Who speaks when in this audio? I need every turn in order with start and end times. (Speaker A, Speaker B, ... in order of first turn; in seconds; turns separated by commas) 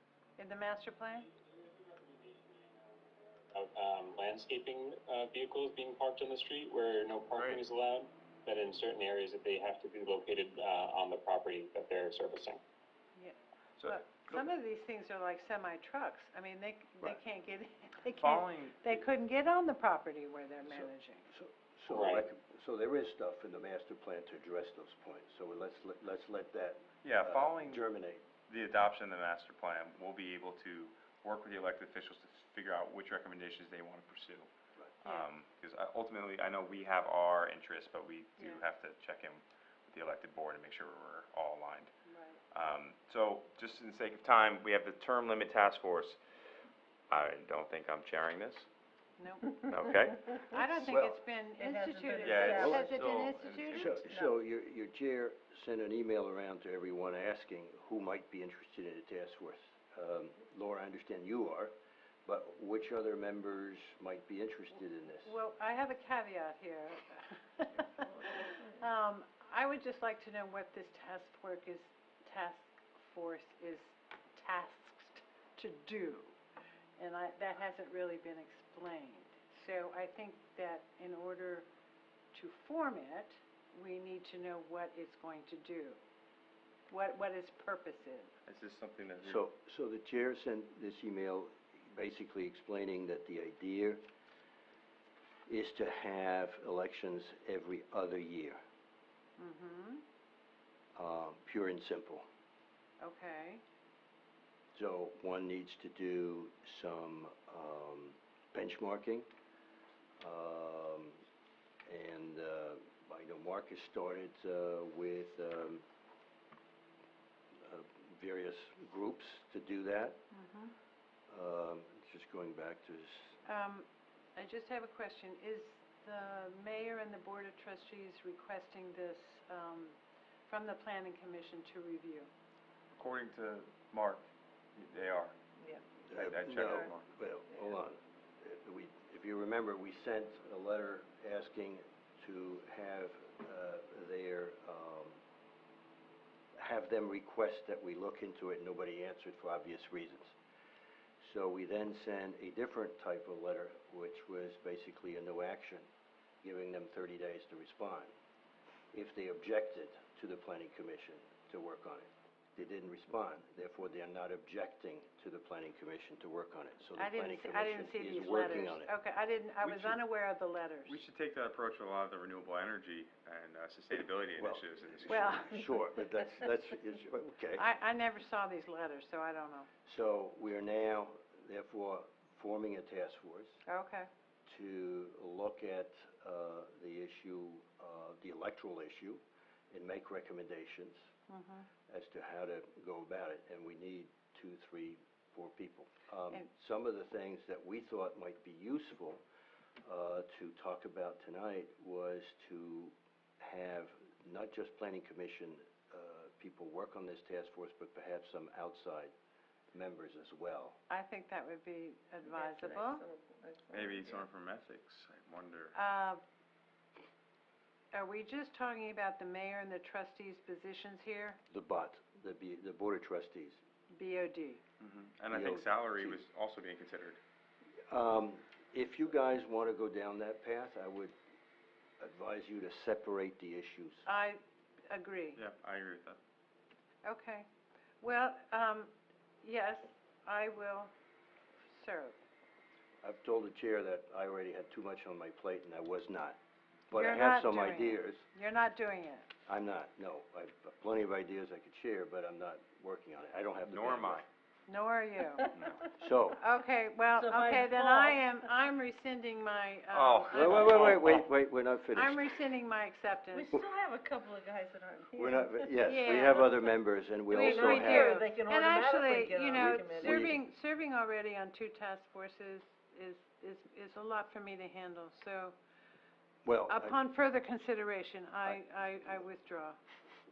Speaker A: 0.4-1.3, Speaker B: 3.5-12.6, Speaker A: 6.4-7.4, Speaker C: 7.3-7.6, Speaker A: 13.2-21.3, Speaker C: 13.8-14.4, Speaker C: 18.1-19.0, Speaker D: 20.6-28.2, Speaker C: 27.0-27.9, Speaker C: 28.5-34.5, Speaker C: 35.0-41.9, Speaker A: 38.4-38.6, Speaker A: 42.0-42.4, Speaker C: 42.5-46.2, Speaker C: 47.1-48.7, Speaker A: 49.2-49.6, Speaker C: 49.7-50.4, Speaker A: 50.5-53.9, Speaker E: 50.6-51.0, Speaker D: 50.8-51.2, Speaker E: 51.6-54.3, Speaker C: 52.2-54.0, Speaker D: 52.5-52.8, Speaker D: 53.7-61.7, Speaker D: 62.2-65.3, Speaker A: 65.2-76.4, Speaker E: 68.2-68.7, Speaker A: 77.0-81.7, Speaker A: 82.3-86.0, Speaker A: 86.9-88.3, Speaker C: 88.5-89.4, Speaker D: 89.2-94.0, Speaker D: 95.5-98.6, Speaker A: 99.4-100.0, Speaker D: 100.9-102.2, Speaker A: 103.0-103.6, Speaker D: 104.7-109.3, Speaker D: 110.2-111.2, Speaker D: 111.9-115.8, Speaker D: 117.6-120.2, Speaker A: 120.3-120.7, Speaker D: 121.3-123.4, Speaker A: 123.4-132.3, Speaker C: 132.9-135.3, Speaker D: 136.0-145.2, Speaker C: 136.1-137.1, Speaker D: 146.5-150.3, Speaker D: 151.2-155.9, Speaker D: 156.4-158.1, Speaker D: 158.9-168.9, Speaker A: 166.9-171.0, Speaker D: 169.6-169.9, Speaker C: 170.9-175.4, Speaker D: 174.4-177.6, Speaker A: 175.1-175.5, Speaker A: 177.6-179.7, Speaker D: 179.8-183.6, Speaker A: 183.7-184.1, Speaker D: 184.4-191.0, Speaker A: 191.3-191.7, Speaker D: 191.9-199.2, Speaker D: 199.8-209.1, Speaker D: 209.7-210.8, Speaker A: 210.9-213.1, Speaker E: 212.2-214.2, Speaker C: 213.7-215.8, Speaker A: 215.7-216.2, Speaker A: 217.9-221.4, Speaker D: 221.5-223.6, Speaker A: 223.9-224.6, Speaker C: 224.8-227.2, Speaker D: 225.3-226.2, Speaker D: 227.9-231.1, Speaker D: 232.0-234.1, Speaker A: 234.1-235.4, Speaker C: 235.3-236.2, Speaker A: 237.0-237.5, Speaker A: 238.0-238.9, Speaker A: 239.4-240.9, Speaker A: 241.7-242.2, Speaker D: 243.0-246.4, Speaker D: 246.9-248.2, Speaker A: 246.9-249.3, Speaker D: 249.5-254.2, Speaker C: 253.7-254.2, Speaker A: 254.7-255.5, Speaker E: 255.3-255.7, Speaker C: 255.5-255.9, Speaker D: 255.9-256.4, Speaker A: 256.4-261.2, Speaker E: 257.1-258.4, Speaker C: 259.9-261.2, Speaker D: 260.3-262.3, Speaker A: 261.9-263.5, Speaker E: 263.3-265.9, Speaker D: 265.1-268.2, Speaker A: 265.9-266.4, Speaker E: 267.3-270.4, Speaker A: 267.3-275.5, Speaker D: 269.5-270.4, Speaker D: 276.4-277.0, Speaker A: 276.7-279.8